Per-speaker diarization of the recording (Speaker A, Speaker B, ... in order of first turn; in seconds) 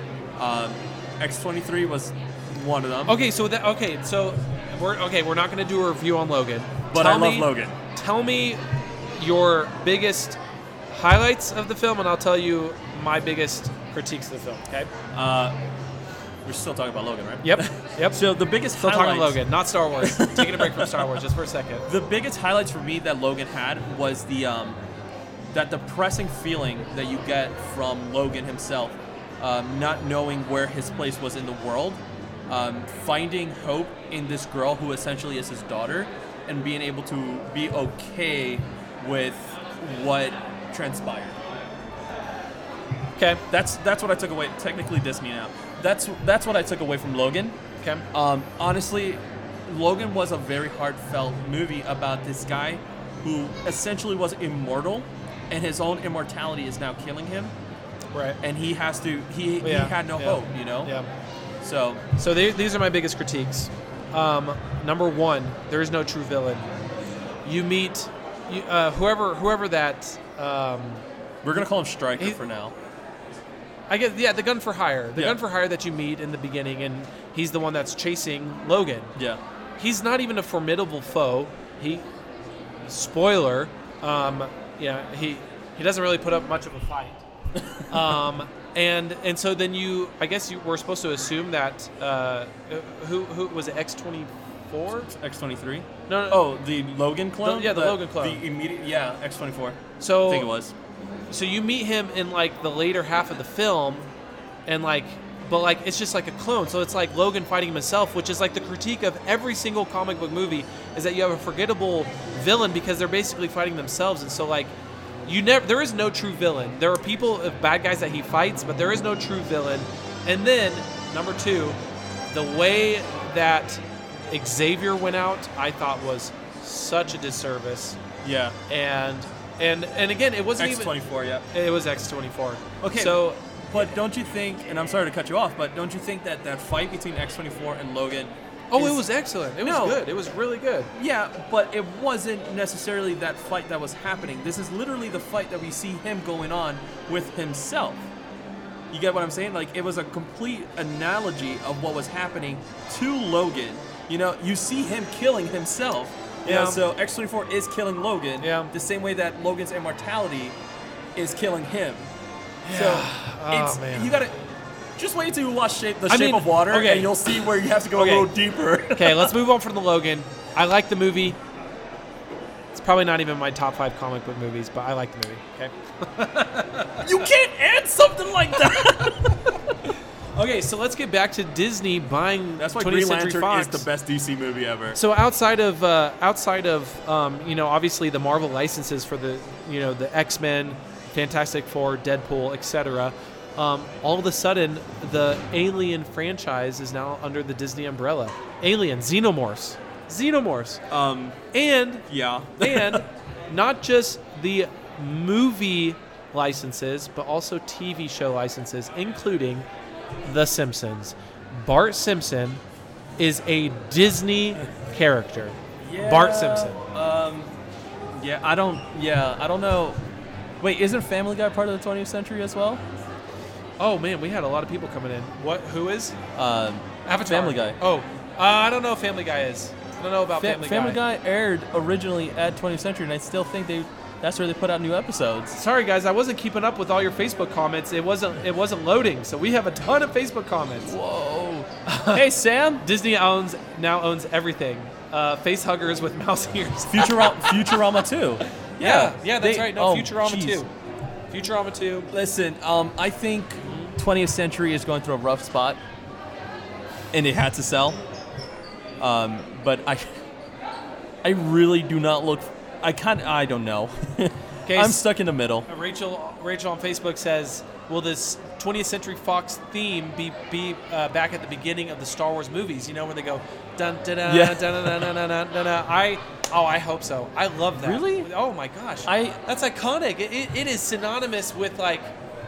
Speaker A: 0.4-3.2, 6.9-7.8, 15.1-15.6, 16.4-19.4, 20.0-21.1, 21.9-24.8, 25.5-41.4, 43.5-47.6, 48.1-57.5, 58.4-60.9, 61.6-62.0, 71.4-72.7, 79.2-79.4, 95.1-100.7, 128.2-128.6, 130.6-131.4, 132.8-139.0, 139.6-140.0, 140.9-148.1, 148.9-160.6, 161.2-162.1, 162.7-164.3, 165.0-169.3, 177.0-179.4, 182.6-185.0, 200.9-201.4, 202.1-203.1, 215.8-217.5, 218.2-220.0, 220.6-222.8, 226.4-227.8, 230.4-235.6, 240.8-242.8, 246.9-250.6, 252.1-255.8, 257.1-258.0, 259.0-260.1, 261.2-265.7, 274.2-275.1, 277.8-278.3, 279.1-279.4
Speaker B: 3.1-8.6, 9.2-10.4, 10.9-14.9, 17.4-18.2, 18.8-21.9, 43.2-43.4, 58.1-58.4, 59.6-61.1, 62.2-66.7, 67.5-71.0, 73.9-79.1, 79.8-82.0, 82.9-87.2, 87.9-95.1, 96.1-96.5, 97.4-98.4, 100.0-100.5, 101.3-104.1, 104.7-114.8, 115.3-121.8, 122.3-128.0, 128.7-131.0, 131.5-133.9, 138.7-140.9, 156.4-156.8, 158.4-158.7, 162.7-164.2, 166.1-168.3, 168.9-171.4, 172.7-177.2, 180.4-183.9, 184.9-200.8, 201.5-202.1, 202.6-209.7, 210.2-212.6, 213.2-216.8, 223.8-226.2, 227.1-231.0, 235.6-240.9, 241.9-242.2, 242.8-247.8, 248.8-250.7, 251.3-252.1, 253.7-253.9, 264.7-265.0, 265.7-282.1